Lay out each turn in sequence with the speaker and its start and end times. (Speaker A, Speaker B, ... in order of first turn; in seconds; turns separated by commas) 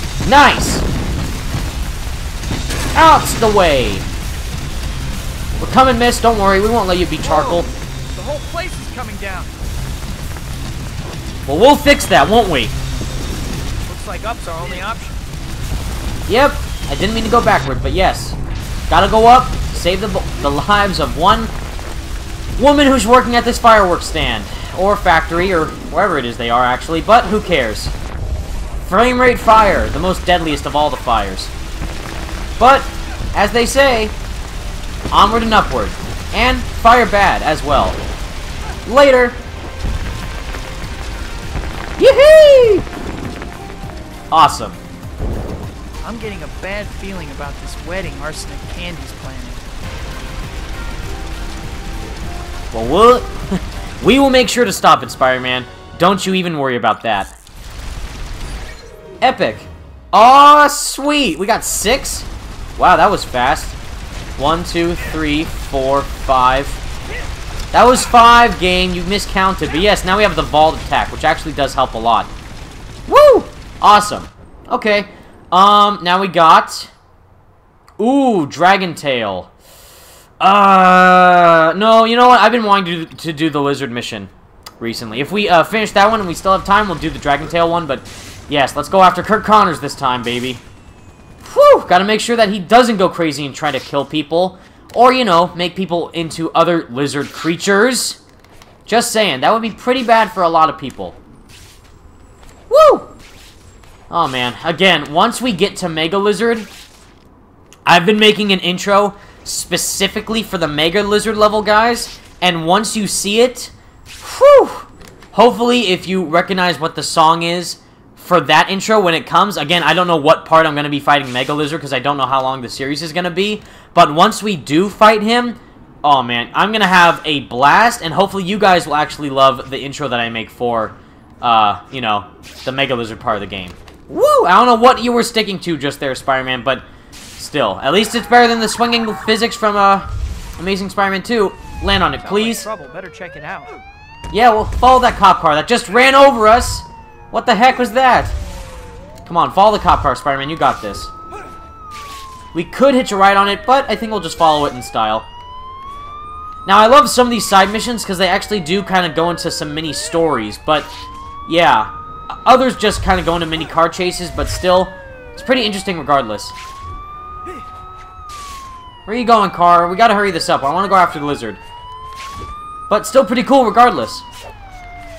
Speaker A: 0.2-0.8, Speaker A: 2.9-4.0, Speaker A: 5.6-7.7, Speaker B: 7.2-9.6, Speaker A: 11.4-12.7, Speaker B: 13.9-15.2, Speaker A: 16.3-18.4, Speaker A: 18.9-21.5, Speaker A: 22.6-27.9, Speaker A: 28.8-31.5, Speaker A: 32.6-34.1, Speaker A: 35.1-38.0, Speaker A: 38.9-39.4, Speaker A: 42.0-42.9, Speaker A: 44.3-44.8, Speaker B: 46.0-49.6, Speaker A: 52.7-57.3, Speaker A: 59.2-63.8, Speaker A: 64.4-66.8, Speaker A: 67.7-72.3, Speaker A: 73.0-76.9, Speaker A: 78.0-79.5, Speaker A: 80.4-90.6, Speaker A: 91.4-98.2, Speaker A: 98.8-101.2, Speaker A: 102.7-103.1, Speaker A: 104.1-106.7, Speaker A: 107.8-136.8, Speaker A: 137.4-142.7, Speaker B: 142.2-143.8, Speaker A: 144.3-148.3, Speaker A: 149.2-151.1, Speaker A: 152.5-155.2, Speaker A: 156.6-160.9, Speaker A: 161.4-166.6, Speaker A: 169.1-171.6, Speaker A: 172.9-174.2